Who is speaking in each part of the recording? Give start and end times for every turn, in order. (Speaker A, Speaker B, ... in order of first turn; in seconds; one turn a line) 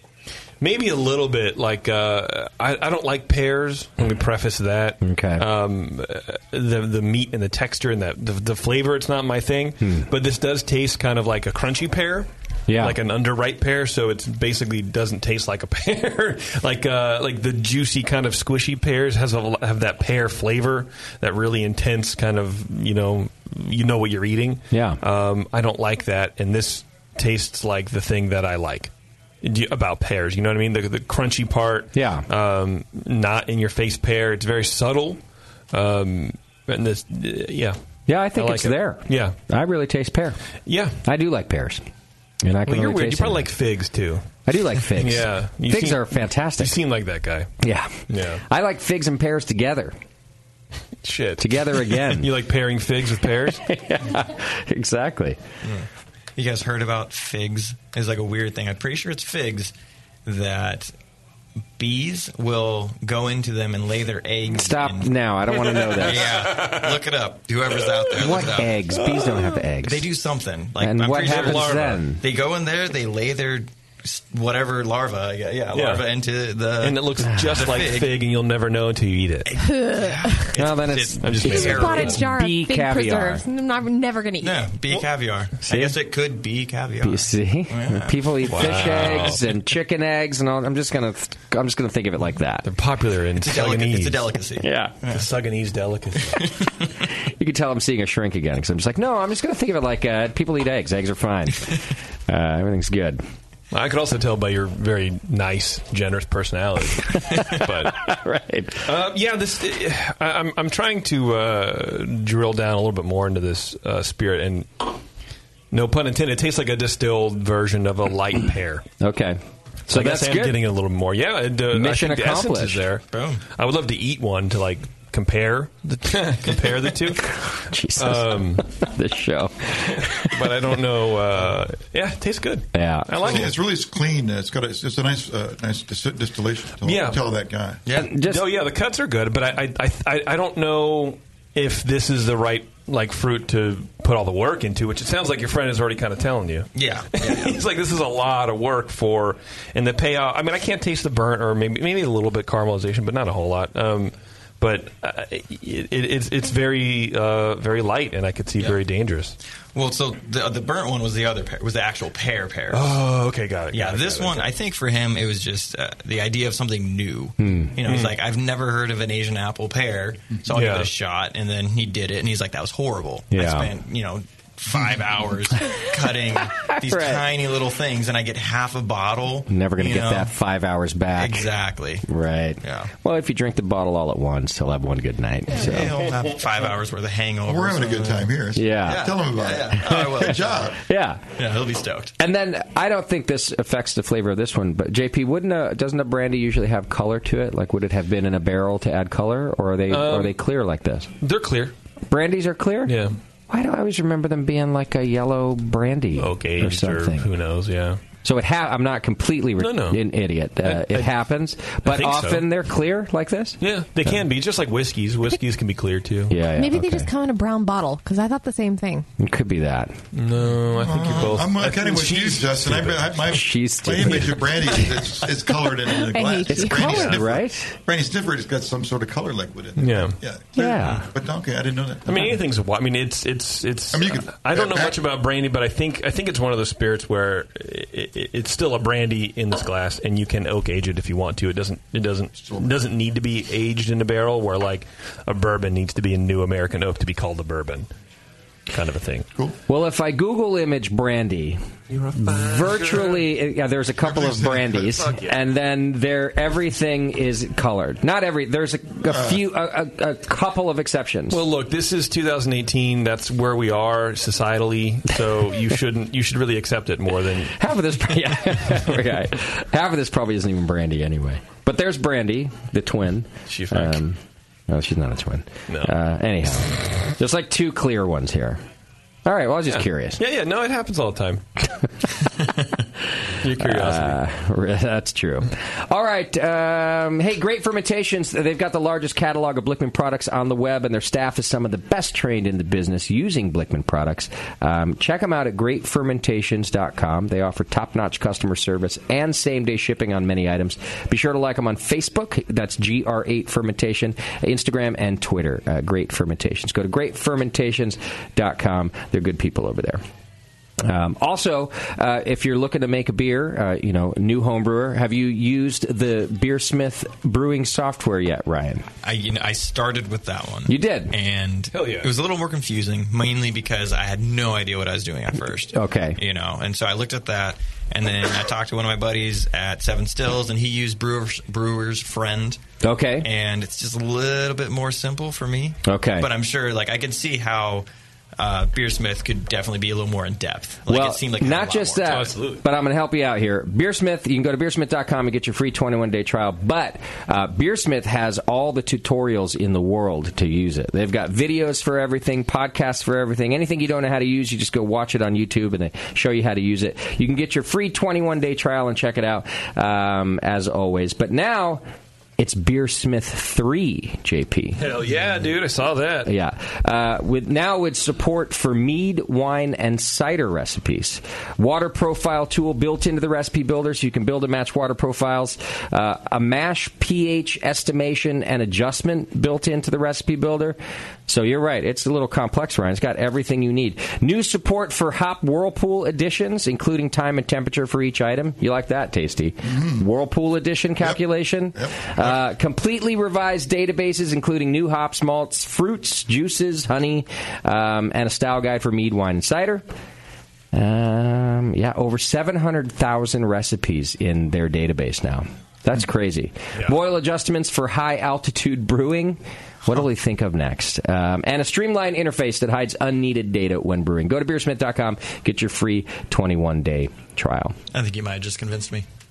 Speaker A: 0.6-28.9
Speaker B: 5.0-5.4
Speaker B: 9.8-10.1
Speaker B: 12.7-12.9
Speaker B: 24.7-25.0
Speaker A: 29.4-35.2
Speaker B: 31.9-32.3
Speaker A: 35.7-37.8
Speaker B: 38.1-40.4
Speaker A: 38.4-39.4
Speaker A: 40.6-41.0
Speaker B: 41.0-41.8
Speaker B: 42.4-43.5
Speaker A: 42.6-44.2
Speaker B: 44.5-46.7
Speaker A: 44.8-47.5
Speaker B: 47.6-49.9
Speaker A: 48.1-48.4
Speaker A: 51.0-53.6
Speaker B: 51.4-52.3
Speaker B: 53.6-55.4
Speaker C: 55.6-59.7
Speaker C: 60.3-60.9
Speaker C: 61.8-65.2
Speaker B: 64.5-66.3
Speaker A: 65.6-66.8
Speaker C: 65.9-68.8
Speaker B: 68.2-70.0
Speaker A: 68.9-69.6
Speaker C: 69.7-78.2
Speaker B: 70.8-72.2
Speaker A: 71.1-72.0
Speaker A: 75.7-76.1
Speaker A: 76.8-79.5
Speaker B: 77.3-77.6
Speaker C: 79.5-82.2
Speaker D: 79.6-80.5
Speaker B: 80.5-83.4
Speaker A: 81.2-82.2
Speaker D: 81.6-84.6
Speaker C: 84.4-89.4
Speaker B: 85.7-85.9
Speaker B: 87.0-92.7
Speaker A: 88.5-89.4
Speaker A: 92.6-94.3
Speaker C: 93.4-95.3
Speaker B: 94.6-94.9
Speaker A: 95.1-96.5
Speaker C: 96.2-96.9
Speaker B: 97.4-103.2
Speaker A: 103.7-108.1
Speaker B: 107.2-108.9
Speaker A: 108.8-114.9
Speaker A: 115.7-118.8
Speaker B: 119.0-120.6
Speaker A: 119.9-128.7
Speaker B: 121.7-122.8
Speaker C: 123.1-123.4
Speaker B: 127.2-130.5
Speaker A: 130.2-133.5
Speaker B: 132.7-133.1
Speaker E: 133.2-137.8
Speaker A: 136.8-137.2
Speaker C: 137.8-138.1
Speaker B: 137.9-138.4
Speaker A: 138.2-159.3
Speaker C: 146.7-147.6
Speaker C: 159.7-163.0
Speaker A: 162.7-164.5
Speaker C: 163.7-180.3
Speaker B: 167.4-167.7
Speaker A: 167.8-168.1
Speaker A: 170.5-170.9
Speaker B: 173.3-173.7
Speaker B: 176.6-177.2
Speaker B: 179.5-181.4
Speaker C: 181.1-182.1
Speaker B: 182.1-185.9
Speaker C: 182.6-182.9
Speaker C: 185.5-190.7
Speaker E: 187.5-190.8
Speaker B: 188.6-189.2
Speaker B: 189.8-190.2
Speaker B: 190.8-191.2
Speaker C: 191.3-192.1
Speaker B: 192.2-201.1
Speaker A: 199.9-200.4
Speaker A: 201.2-201.7
Speaker B: 202.1-202.9
Speaker A: 202.8-203.1
Speaker B: 203.5-207.3
Speaker A: 206.2-208.0
Speaker B: 208.2-214.2
Speaker A: 209.6-210.0
Speaker A: 210.6-211.1
Speaker A: 211.8-212.4
Speaker A: 213.6-216.4
Speaker B: 216.3-217.1
Speaker D: 216.6-219.1
Speaker B: 219.2-219.9
Speaker A: 220.1-223.1
Speaker E: 220.8-232.3
Speaker B: 223.3-224.9
Speaker D: 226.0-226.8
Speaker B: 226.5-227.7
Speaker A: 226.8-227.2
Speaker A: 229.8-230.2
Speaker B: 230.6-231.1
Speaker A: 232.1-247.9
Speaker E: 233.9-235.0
Speaker E: 242.4-242.9
Speaker A: 248.7-249.3
Speaker B: 249.7-251.6
Speaker A: 251.9-253.3
Speaker B: 252.2-261.4
Speaker E: 254.0-255.1
Speaker A: 255.0-255.3
Speaker E: 259.1-259.4
Speaker A: 261.3-267.6
Speaker B: 267.6-274.2
Speaker A: 273.5-274.0
Speaker B: 274.7-278.6
Speaker A: 275.7-275.9
Speaker B: 279.2-280.2
Speaker A: 279.7-281.4
Speaker A: 283.4-284.2
Speaker B: 283.6-310.0
Speaker B: 310.8-318.9
Speaker C: 319.0-332.6
Speaker B: 320.7-321.1
Speaker A: 321.7-322.1
Speaker B: 325.7-326.2
Speaker B: 332.8-333.3
Speaker C: 333.2-337.9
Speaker B: 335.9-336.3
Speaker C: 338.4-342.4
Speaker B: 340.9-361.8
Speaker A: 342.1-342.6
Speaker B: 362.4-364.8
Speaker A: 364.8-366.3
Speaker B: 366.2-380.8
Speaker B: 381.3-399.9
Speaker E: 389.6-390.0
Speaker E: 391.7-392.4
Speaker B: 400.7-417.8
Speaker C: 417.9-419.1